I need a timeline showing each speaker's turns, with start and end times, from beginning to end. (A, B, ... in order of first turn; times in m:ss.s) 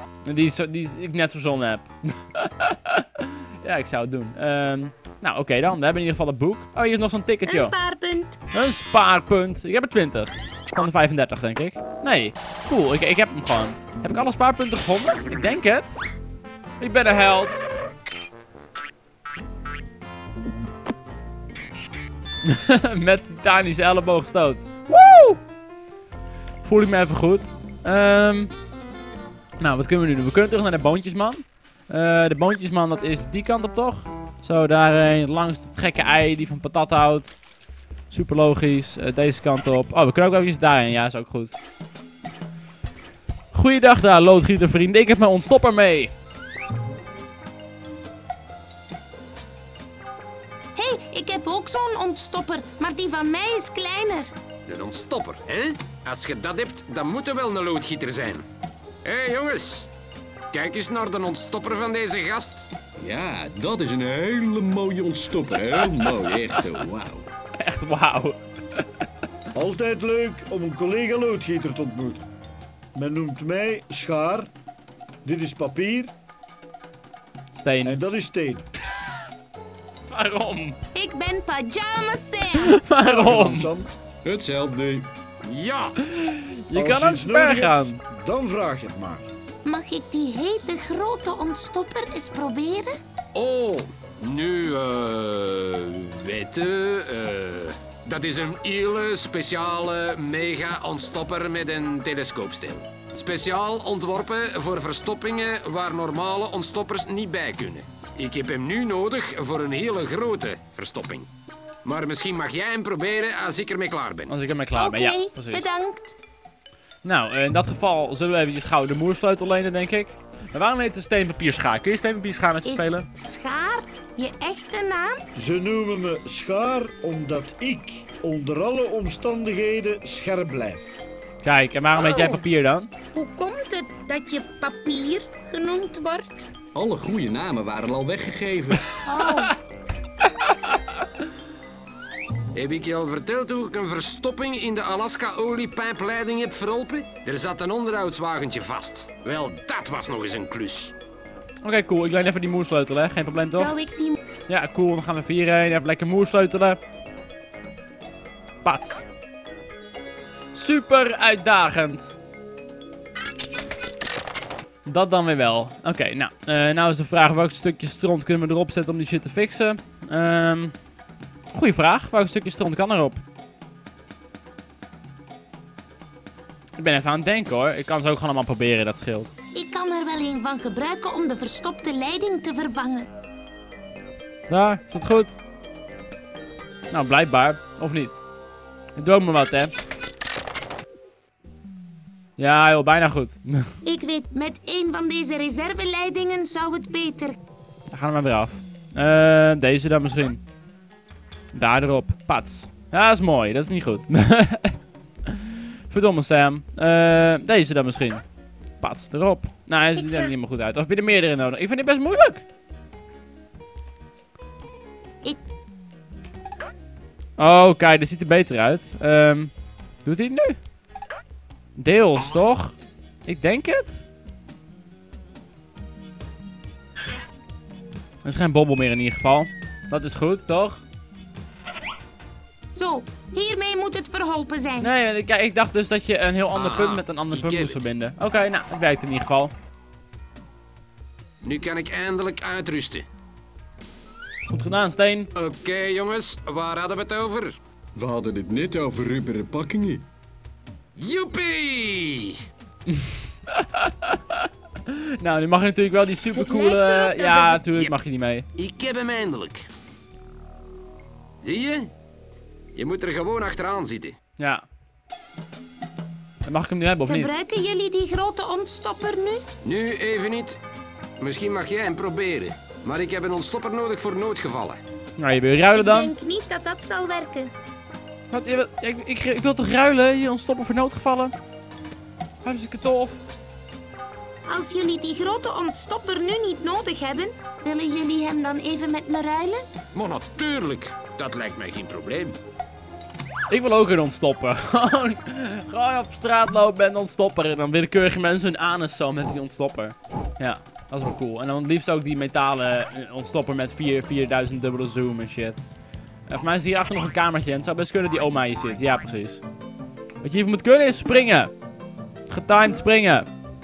0:00.2-0:07.7 A
0:07.4-0:08.4 B
0:08.5-0:16.0 A
0:16.8-0:17.6 A
0:22.4-0:25.4 A
0:26.6-0:28.5 A
0:29.6-0:37.4 A
0:38.1-0:41.5 A
0:43.5-0:46.1 A
0:50.8-0:54.3 B
0:54.7-0:58.4 C
0:59.0-0:59.9 C
1:00.5-1:02.7 C
1:03.0-1:07.3 D
1:07.6-1:08.4 A
1:09.5-1:12.2 E
1:12.9-1:14.5 E
1:15.2-1:16.1 E
1:17.5-1:18.0 A
1:17.8-1:18.7 E
1:20.1-1:20.8 A
1:20.9-1:22.8 B
1:22.6-1:23.7 A
1:23.0-1:23.9 E
1:24.2-1:25.1 D
1:25.4-1:26.0 C
1:26.0-1:28.0 A
1:26.7-1:29.3 E
1:29.6-1:33.0 B
1:33.3-1:51.3 C
1:51.8-1:54.3 C
1:54.2-1:55.7 A
1:54.8-1:56.1 B
1:57.0-2:03.0 A
2:02.6-2:05.2 B
2:05.4-2:10.9 E
2:11.4-2:12.9 A
2:12.0-2:12.4 B
2:13.1-2:16.4 B
2:16.7-2:19.0 D
2:19.1-2:19.5 B
2:22.5-2:30.9 C
2:31.6-2:33.8 A
2:33.6-2:34.2 B
2:34.5-2:36.8 A
2:38.6-2:39.0 A
2:40.5-2:42.1 A
2:44.8-2:50.7 A
2:51.5-2:53.2 A
2:56.8-2:59.3 A
2:59.5-3:03.1 B
3:04.5-3:05.4 A
3:06.9-3:08.2 A
3:09.0-3:09.7 A
3:12.4-3:13.7 A
3:13.8-3:17.4 B
3:17.9-3:20.4 A
3:21.5-3:24.8 A
3:25.3-3:28.2 A
3:28.8-3:32.4 A
3:30.0-3:30.3 B
3:37.4-3:39.5 A
3:40.0-3:40.6 A
3:41.8-3:44.0 A
3:48.2-3:50.8 A
3:52.7-3:54.9 B
3:54.8-3:59.5 A
3:56.5-3:57.8 C
4:01.4-4:03.0 C
4:04.5-4:05.3 A
4:05.3-4:07.6 C
4:07.9-4:10.0 D
4:11.0-4:12.4 C
4:12.9-4:18.4 A
4:16.3-4:17.6 B
4:18.6-4:19.7 C
4:21.4-4:21.9 C
4:22.7-4:24.2 C
4:24.4-4:24.6 A
4:26.4-4:27.3 A
4:27.1-4:29.4 B
4:29.6-4:30.6 C
4:31.2-4:34.8 C
4:35.2-4:36.1 A
4:35.7-4:37.5 B
4:38.3-4:41.3 A
4:42.4-4:43.2 A
4:44.5-4:49.6 B
4:49.9-4:52.4 C
4:53.5-5:05.6 A
5:06.3-5:09.4 A
5:10.2-5:11.5 A
5:12.3-5:13.3 A